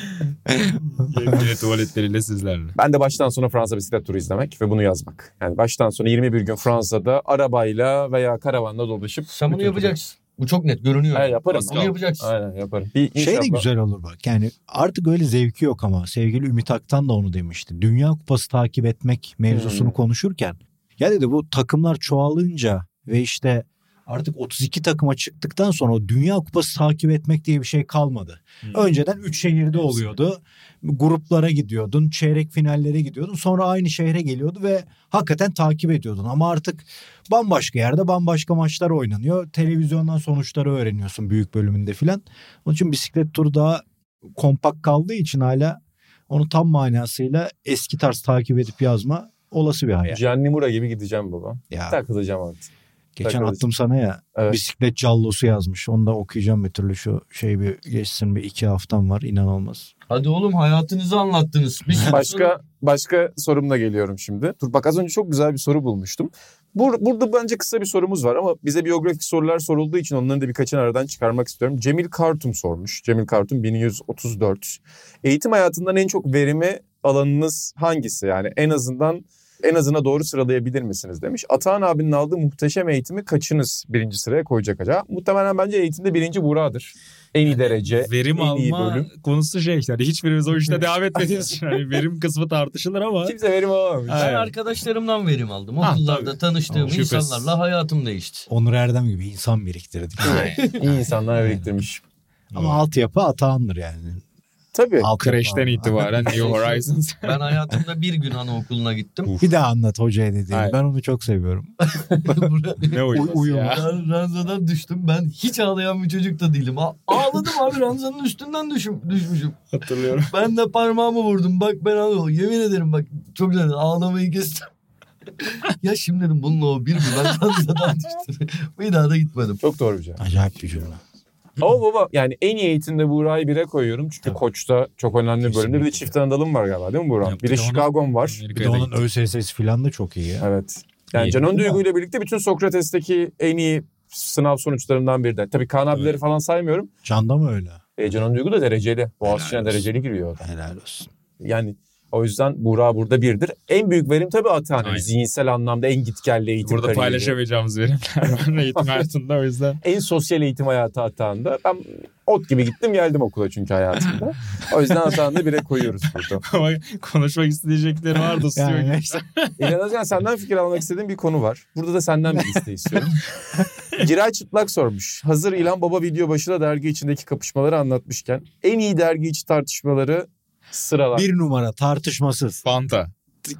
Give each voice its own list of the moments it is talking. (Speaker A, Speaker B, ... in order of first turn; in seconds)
Speaker A: 0.5-1.5, 13.2-43.8, 44.4-50.2, 51.7-52.0, 53.2-59.9, 96.7-97.0, 98.5-101.7, 102.5-104.2, 105.0-106.6, 109.4-111.7, 112.2-112.5, 113.1-113.9, 130.2-131.0, 135.4-136.1, 138.5-140.4, 141.3-141.8, 147.0-147.8, 149.2-149.9, 150.4-151.1, 168.5-169.2, 172.4-173.1, 181.1-182.6
Speaker B: 1.0-2.8, 88.0-93.3, 94.1-94.5, 95.8-97.5, 100.2-100.6, 102.5-102.8, 105.2-107.5, 110.5-110.8, 112.9-113.9, 119.7-120.3, 137.2-138.9, 154.8-155.1, 156.6-159.8, 166.4-169.5, 182.6-183.1
Speaker C: 2.8-9.9, 11.1-13.6, 19.5-19.9, 50.1-52.7, 53.2-53.6, 62.0-89.1, 93.2-94.3, 100.2-102.0, 104.7-105.1, 129.6-130.2, 131.6-138.4, 140.4-146.9, 148.0-150.4, 151.4-157.3, 158.7-159.0, 159.8-166.4, 169.6-173.3, 173.9-181.3
Speaker D: 9.3-12.3, 60.1-62.6, 94.1-98.5, 100.5-100.8, 106.4-109.3, 112.0-119.6, 120.2-124.7, 125.4-129.6